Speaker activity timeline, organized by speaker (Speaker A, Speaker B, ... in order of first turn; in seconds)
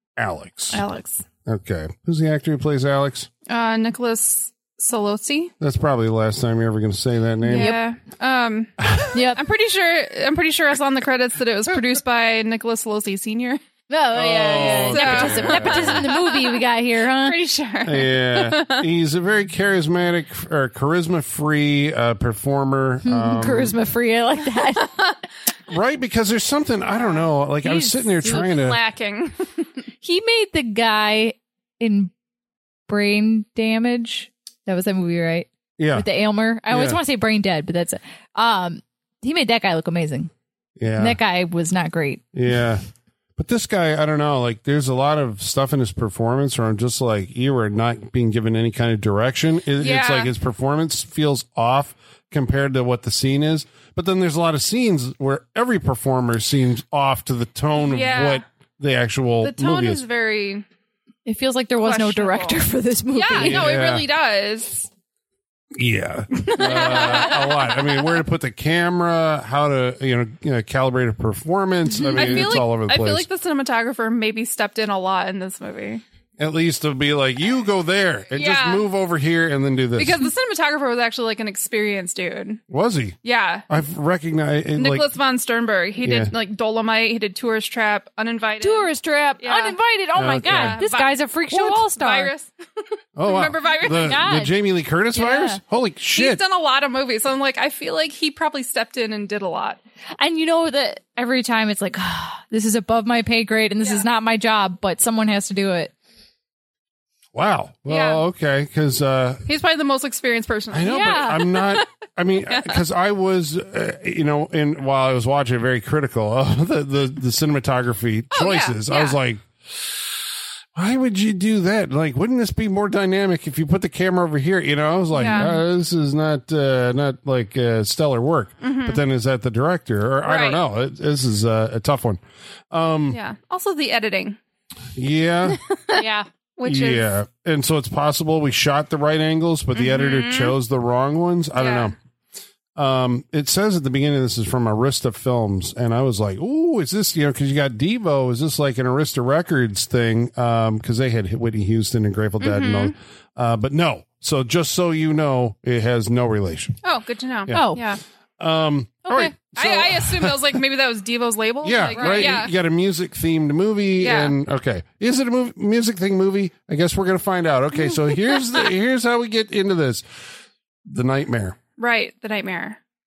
Speaker A: 0.2-0.8, 1.4-3.3, 5.6-7.8, 14.1-16.1, 17.8-23.8, 25.7-28.8, 35.8-36.1, 36.7-37.0, 40.8-41.2, 42.3-42.8, 43.4-60.0, 63.4-64.1, 65.7-73.2, 76.4-80.3, 82.7-83.2, 83.7-85.1, 86.0-86.3, 90.1-90.8, 93.2-96.4, 107.3-109.5, 110.7-120.1, 120.7-133.2, 134.9-135.6, 136.6-141.9, 142.8-156.8, 157.5-157.7, 158.4-160.6, 161.6-170.0, 170.8-171.6
Speaker B: 0.7-1.2, 3.5-5.5, 7.5-13.6, 14.6-18.9, 24.8-25.2, 28.2-29.7, 49.8-50.3, 57.8-58.4, 59.4-60.6, 61.8-64.9, 66.3-68.2, 72.1-76.0, 78.3-78.8, 80.0-82.6, 83.2-83.7, 84.7-89.8, 90.4-94.2, 96.1-99.8, 107.9-108.2, 109.5-111.9, 112.5-112.8, 118.3-119.2, 125.1-125.5, 128.6-129.0, 130.2-130.6, 133.1-134.4, 135.7-136.0, 136.6-137.1, 139.7-140.5, 141.6-141.9, 152.4-152.9, 156.8-158.0, 159.1-162.5, 164.0-164.3, 171.8-172.8
Speaker C: 7.5-7.8, 9.1-9.4, 13.9-17.4, 23.0-24.9, 27.6-28.1, 30.0-32.1, 32.9-40.3, 41.0-42.2, 61.2-63.7, 71.9-72.5, 88.6-92.3, 94.0-94.5, 95.1-95.6, 100.2-105.9, 110.8-111.4, 125.2-125.5, 135.9-136.3, 157.5-157.8, 161.9-162.4